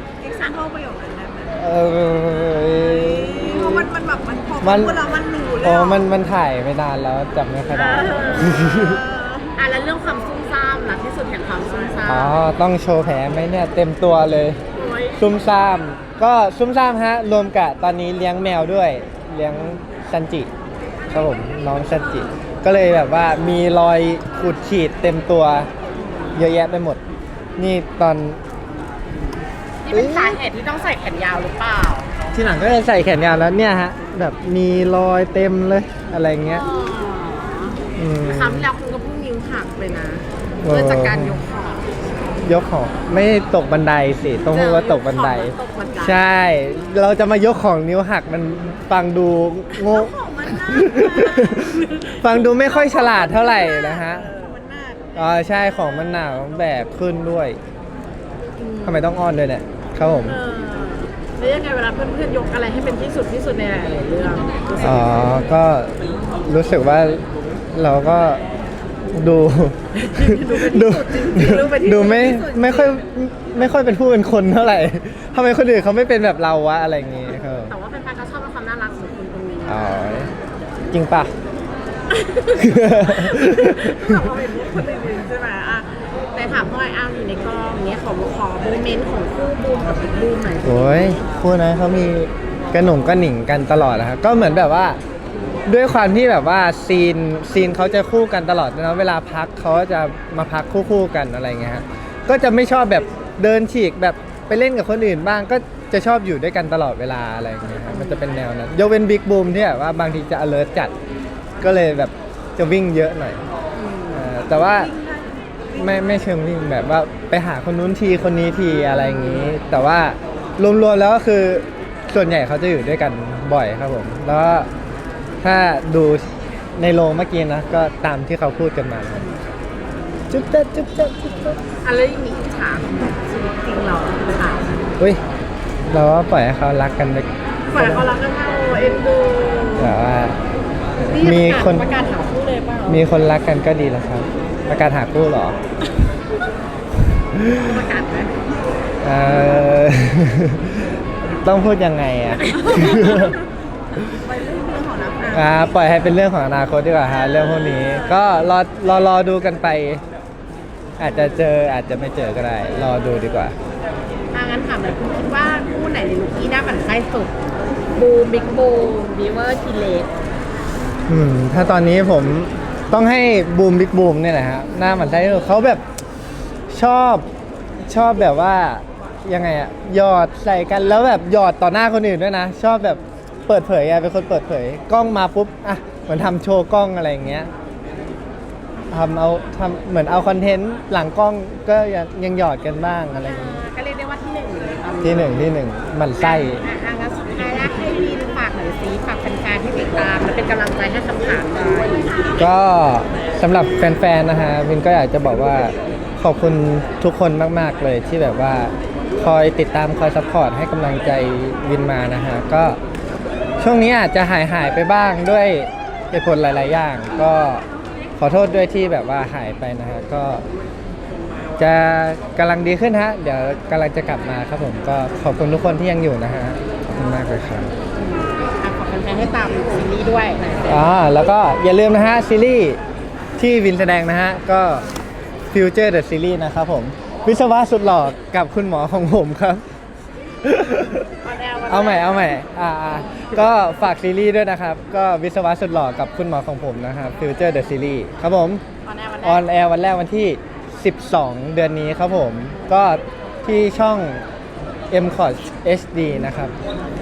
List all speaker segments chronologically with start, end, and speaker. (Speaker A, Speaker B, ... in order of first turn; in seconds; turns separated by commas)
Speaker A: 0.2-1.5, Speaker B: 1.5-3.9, Speaker A: 3.0-6.0, Speaker B: 4.6-5.1, Speaker B: 5.6-9.0, Speaker C: 7.7-9.0, Speaker A: 8.4-9.5, Speaker C: 9.5-12.4, Speaker B: 12.1-14.6, Speaker C: 14.7-15.3, Speaker B: 15.2-20.5, Speaker B: 21.1-25.7, Speaker B: 26.3-27.0, Speaker B: 27.6-28.4, Speaker C: 29.8-32.1, Speaker B: 29.9-30.4, Speaker B: 32.3-36.6, Speaker C: 36.4-41.9, Speaker B: 38.0-38.7, Speaker B: 40.6-41.4, Speaker B: 42.4-54.3, Speaker C: 44.5-46.3, Speaker A: 49.9-51.5, Speaker C: 51.5-52.2, Speaker A: 52.6-55.1, Speaker B: 55.1-57.6, Speaker C: 58.6-59.1, Speaker B: 58.8-60.4, Speaker C: 60.0-65.3, Speaker B: 64.8-68.4, Speaker B: 69.1-77.7, Speaker A: 70.3-72.8, Speaker C: 71.1-72.3, Speaker C: 77.6-80.3, Speaker B: 79.7-80.3, Speaker B: 80.9-81.3, Speaker C: 82.1-84.7, Speaker B: 82.5-84.3, Speaker A: 84.2-85.7, Speaker C: 85.4-91.1, Speaker B: 90.6-95.0, Speaker B: 95.7-110.9, Speaker C: 107.9-108.3, Speaker B: 111.6-113.4, Speaker C: 113.8-114.3, Speaker B: 114.1-114.9, Speaker B: 115.7-124.7, Speaker C: 118.9-119.5, Speaker B: 125.4-129.3, Speaker B: 130.3-131.6, Speaker C: 131.8-134.8, Speaker B: 135.9-138.1, Speaker C: 137.7-139.9, Speaker B: 139.8-140.4, Speaker B: 141.0-141.9, Speaker C: 141.0-143.0, Speaker B: 142.9-145.6, Speaker B: 147.3-147.7, Speaker C: 147.5-148.3, Speaker B: 149.0-153.3, Speaker C: 152.4-153.3, Speaker A: 154.1-155.5, Speaker B: 155.3-160.0, Speaker C: 157.5-158.1, Speaker B: 161.0-163.5, Speaker C: 161.0-161.5, Speaker C: 164.3-167.3, Speaker C: 167.9-170.1, Speaker B: 171.1-175.8, Speaker C: 174.9-175.4, Speaker B: 176.7-177.3, Speaker B: 177.8-187.5, Speaker B: 188.9-193.6, Speaker C: 193.2-195.5, Speaker B: 195.0-196.6, Speaker C: 196.2-202.2, Speaker B: 202.4-212.8, Speaker B: 213.6-217.6, Speaker B: 218.2-220.4, Speaker B: 221.6-227.7, Speaker C: 227.9-230.8, Speaker B: 230.7-232.8, Speaker B: 233.4-234.8, Speaker B: 235.5-239.6, Speaker B: 240.4-241.1, Speaker C: 241.2-242.3, Speaker B: 241.7-248.6, Speaker C: 248.8-249.5, Speaker B: 249.2-254.2, Speaker B: 254.9-256.6